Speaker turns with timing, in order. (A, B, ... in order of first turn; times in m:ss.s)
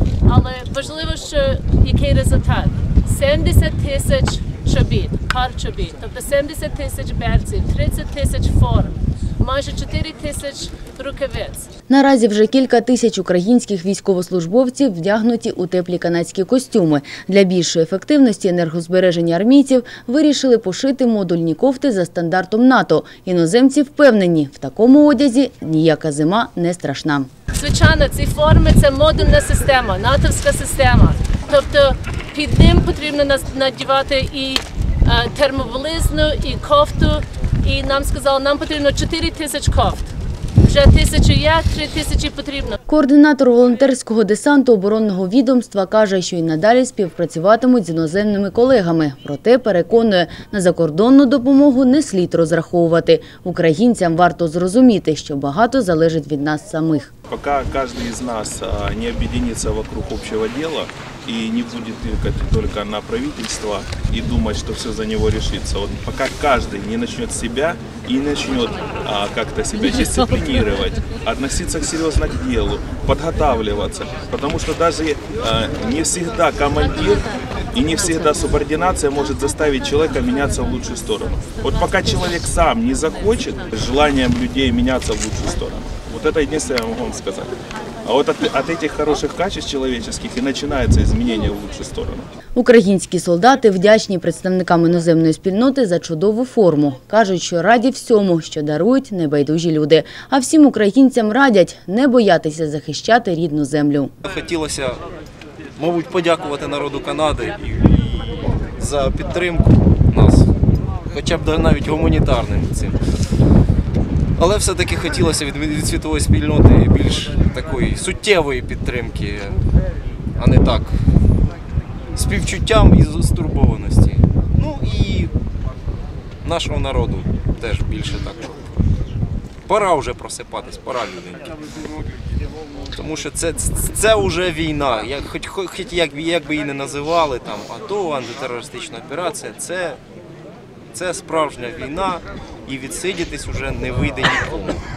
0:00.2-0:11.7 A
0:11.9-0:27.3 B
0:27.5-0:42.8 A
0:42.9-0:57.1 B
0:57.3-1:32.3 C
1:32.6-1:44.1 B
1:44.2-1:45.0 D
1:45.8-1:50.5 D
1:51.1-1:53.0 D
1:54.4-1:59.6 D
2:00.4-2:01.0 D
2:02.2-2:05.3 D
2:06.4-2:08.7 D
2:09.7-2:11.5 D
2:12.9-2:20.0 D
2:20.9-2:24.8 D